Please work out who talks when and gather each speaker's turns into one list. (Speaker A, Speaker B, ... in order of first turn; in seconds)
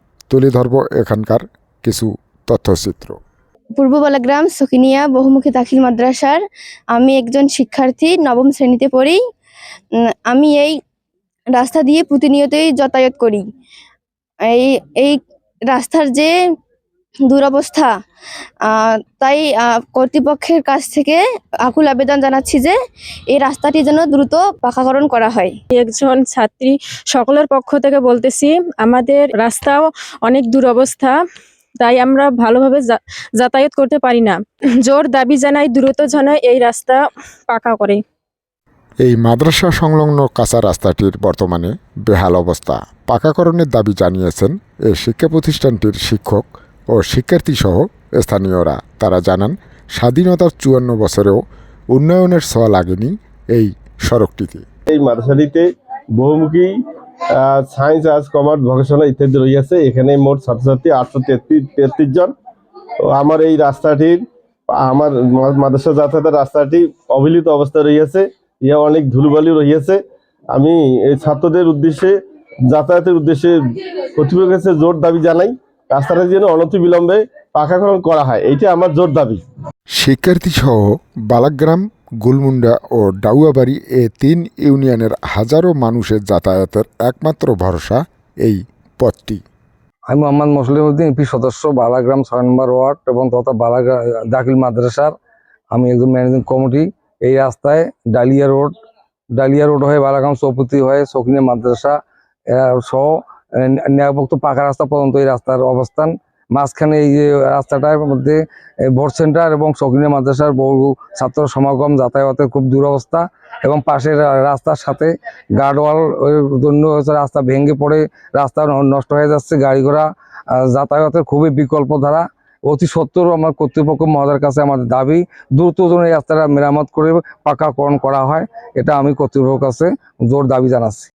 Speaker A: 0.3-3.2, 39.0-51.4, 51.9-54.6, 80.0-89.4
Speaker B: 3.8-6.4, 6.9-9.2, 10.3-10.8, 11.6-13.4, 14.5-15.2, 15.7-16.3, 17.3-17.9, 18.6-22.8, 23.3-25.6
Speaker C: 25.7-31.2, 31.8-38.0
Speaker D: 54.9-56.8, 57.4-62.3, 63.0-70.0, 70.5-72.2, 72.7-79.4
Speaker E: 90.1-95.1, 95.7-98.7, 99.4-102.0, 102.5-131.1